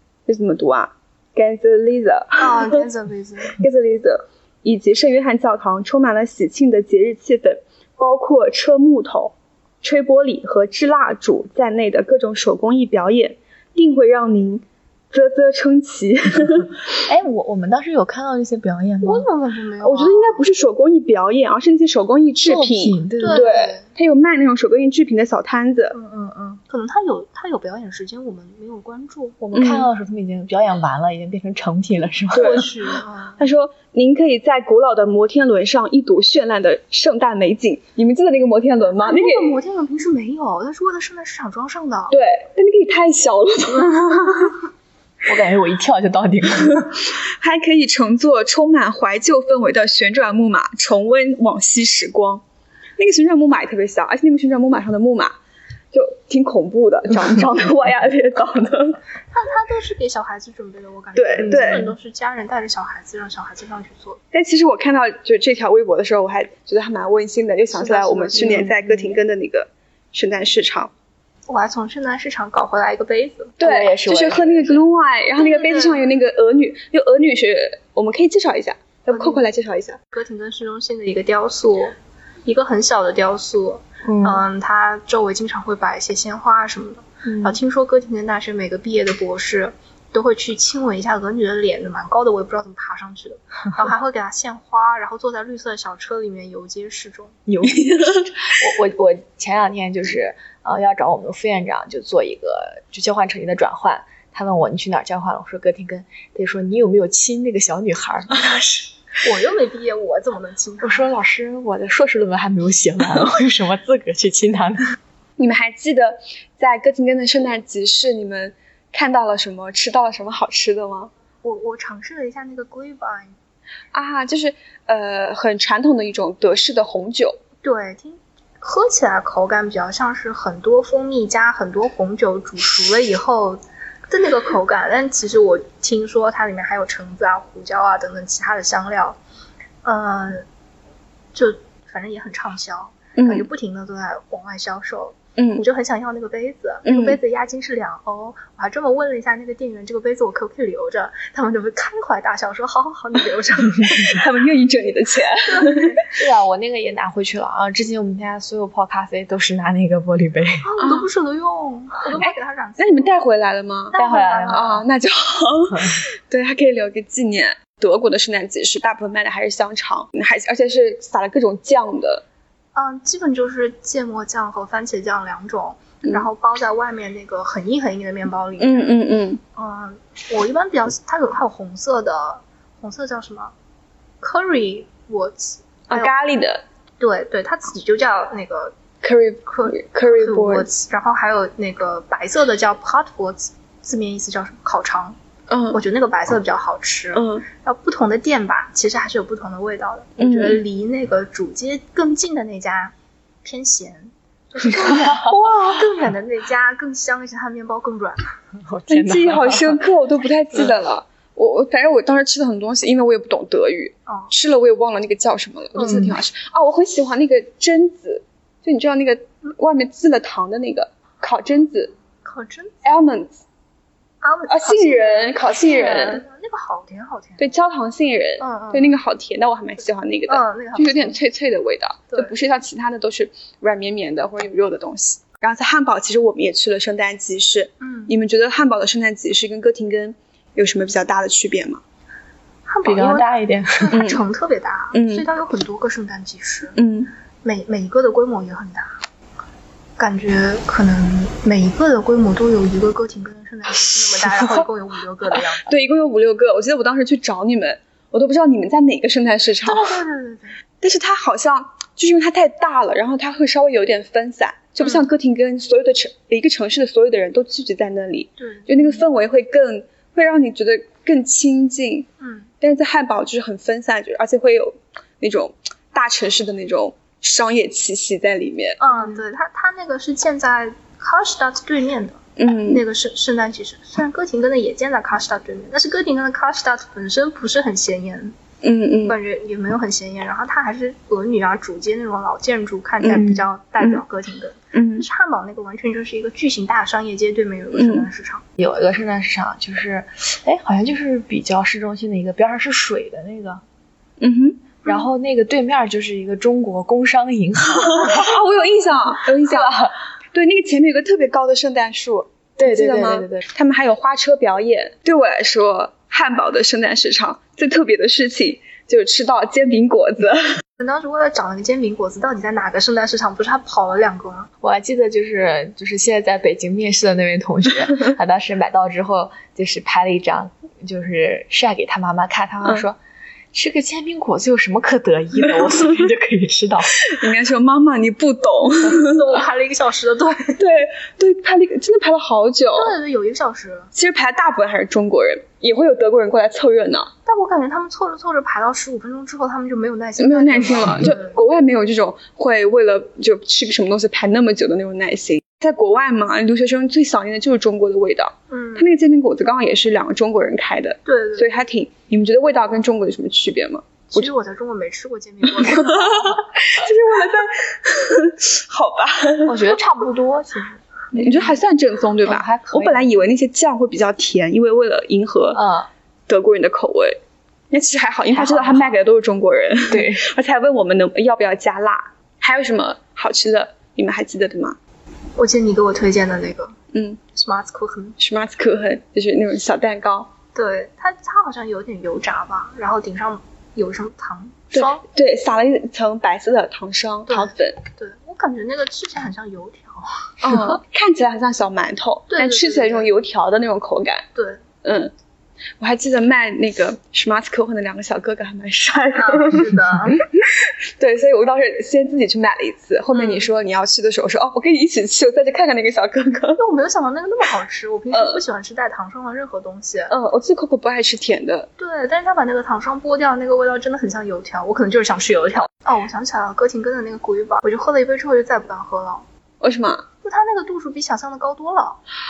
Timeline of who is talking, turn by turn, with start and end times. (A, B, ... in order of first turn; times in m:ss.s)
0:00.3-0:02.8 A
0:02.4-0:03.6 B
0:03.6-0:16.8 A
0:17.1-0:19.3 C
0:19.0-0:20.5 B
0:19.8-0:26.0 A
0:22.4-0:23.5 C
0:23.2-0:23.9 B
0:25.9-0:26.6 C
0:26.7-0:29.4 B
0:29.4-0:32.7 C
0:29.5-0:29.9 A
0:32.3-0:33.4 B
0:32.3-0:32.7 A
0:33.4-0:39.5 A
0:39.0-0:42.2 B
0:42.1-0:44.6 A
0:45.2-0:47.0 C
0:47.2-0:52.4 A
0:53.0-0:55.4 A
0:55.9-0:59.0 A
0:59.3-1:04.2 B
1:01.2-1:01.9 A
1:01.4-1:01.9 C
1:04.3-1:10.9 A
1:07.7-1:08.7 B
1:08.4-1:09.2 C
1:11.5-1:13.6 B
1:13.6-1:20.0 A
1:13.6-1:14.8 C
1:15.4-1:16.0 B
1:19.1-1:19.4 B
1:20.1-1:37.4 B
1:24.0-1:24.4 C
1:27.2-1:27.6 C
1:37.5-1:48.8 C
1:37.6-1:38.6 A
1:49.2-1:51.1 B
1:50.8-1:55.0 C
1:55.4-2:01.1 A
2:01.4-2:03.4 B
2:03.9-2:07.4 A
2:07.6-2:19.2 B
2:19.8-2:20.4 B
2:21.3-2:34.2 B
2:23.2-2:23.5 A
2:25.4-2:25.6 A
2:26.8-2:27.2 A
2:33.8-2:36.0 A
2:35.5-2:36.0 B
2:36.1-2:40.7 C
2:40.6-2:43.1 B
2:40.8-2:41.1 A
2:42.1-2:44.0 A
2:43.9-2:44.8 B
2:43.9-2:44.8 C
2:44.5-2:52.2 A
2:45.7-2:46.0 C
2:52.8-2:58.9 B
2:58.6-2:59.4 A
2:59.6-3:03.5 B
3:04.2-3:06.1 B
3:05.9-3:06.6 A
3:07.0-3:08.7 B
3:09.0-3:10.7 A
3:09.5-3:15.2 B
3:15.5-3:15.8 A
3:15.7-3:28.2 B
3:17.1-3:17.4 A
3:20.2-3:20.6 A
3:24.6-3:25.3 C
3:25.2-3:25.9 A
3:28.6-3:29.8 C
3:28.9-3:41.9 A
3:34.1-3:34.3 B
3:35.8-3:36.2 C
3:42.2-3:42.8 B
3:42.8-3:43.4 A
3:44.2-3:47.4 B
3:44.5-3:46.2 A
3:47.4-4:01.8 A
3:48.4-3:49.0 B
3:50.3-3:51.2 B
3:57.8-3:58.1 B
4:02.7-4:06.8 B
4:02.8-4:04.0 C
4:03.9-4:04.2 A
4:04.9-4:05.3 A
4:06.8-4:07.1 A
4:07.4-4:09.0 B
4:10.0-4:15.7 B
4:15.7-4:20.0 A
4:19.7-4:20.6 B
4:20.8-4:32.1 A
4:24.8-4:25.1 B
4:28.4-4:29.0 B
4:32.2-4:32.5 B
4:32.6-4:38.8 A
4:38.8-4:48.4 B
4:42.4-4:42.8 A
4:48.6-4:49.2 A
4:49.0-4:58.4 B
4:53.0-4:54.0 A
4:53.2-4:53.4 C
4:54.7-4:55.1 A
4:57.7-4:58.1 A
4:58.6-5:03.6 C
5:04.2-5:04.6 A
5:04.8-5:08.3 C
5:07.9-5:09.8 A
5:09.4-5:09.9 C
5:10.3-5:20.5 A
5:12.6-5:13.5 C
5:20.8-5:24.5 B
5:24.6-5:33.0 C
5:33.5-5:37.0 C
5:37.1-5:39.2 A
5:38.9-5:40.6 B
5:40.6-5:43.0 A
5:42.8-5:43.9 B
5:43.9-5:47.1 A
5:47.3-5:51.4 B
5:50.2-6:04.3 A
5:58.5-5:58.9 B
6:01.1-6:01.5 B
6:04.1-6:06.3 B
6:05.6-6:09.6 A
6:09.4-6:11.5 C
6:11.1-6:15.6 A
6:12.2-6:13.1 C
6:15.5-6:15.9 C
6:16.3-6:17.2 A
6:17.7-6:24.8 A
6:18.3-6:18.9 C
6:19.9-6:20.3 C
6:25.4-6:26.8 B
6:26.9-6:27.2 A
6:27.3-6:28.2 B
6:28.2-6:30.3 A
6:30.6-6:35.0 B
6:34.7-6:37.8 A
6:37.3-6:40.8 B
6:40.4-6:44.2 A
6:42.3-6:43.1 B
6:44.4-6:44.6 B
6:44.8-6:45.1 A
6:45.8-6:49.8 A
6:49.2-6:50.3 B
6:50.3-6:56.6 A
6:53.1-6:53.5 B
6:56.6-7:00.1 B
6:58.1-6:58.4 A
7:00.1-7:01.7 A
7:01.8-7:09.2 B
7:09.6-7:10.0 A
7:10.2-7:12.0 B